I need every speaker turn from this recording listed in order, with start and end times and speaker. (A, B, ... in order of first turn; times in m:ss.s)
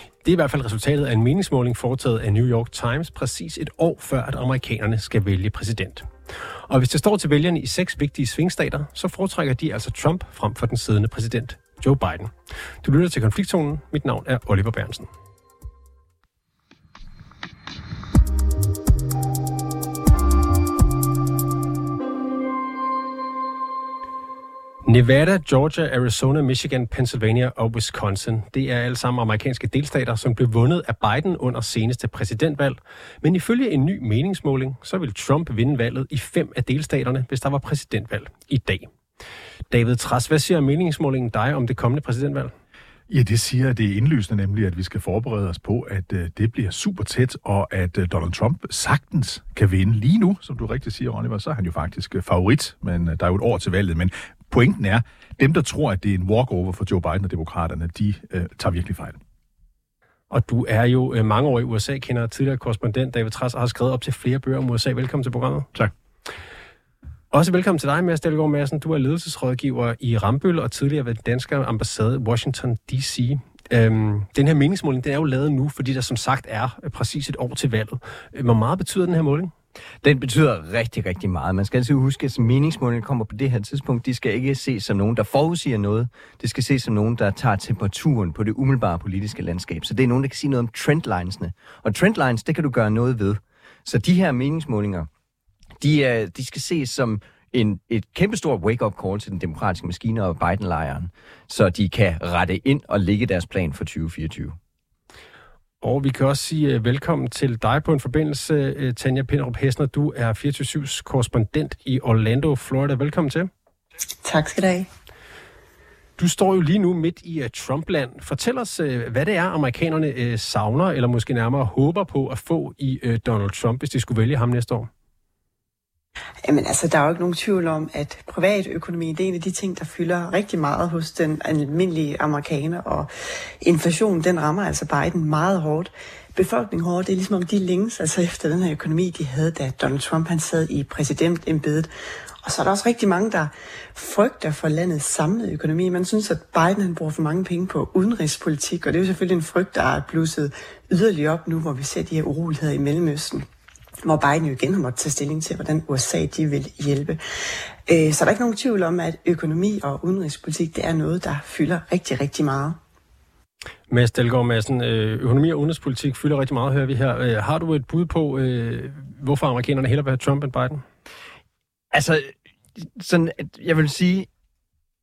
0:00.2-0:06.1 A
0:06.7-0:15.1 A
0:24.8-0:38.9 A
0:39.7-0:42.5 A
0:43.1-0:59.2 B
1:00.3-1:05.7 A
1:07.3-1:19.5 A
1:20.0-1:35.1 C
1:35.8-1:44.6 C
1:45.8-1:53.5 A
1:54.2-1:54.9 D
1:56.2-2:04.9 A
2:06.4-2:13.1 D
2:13.6-2:21.9 D
2:22.4-2:33.4 D
2:34.0-2:37.2 D
2:37.9-2:42.8 D
2:43.9-2:50.8 A
2:51.9-2:54.3 C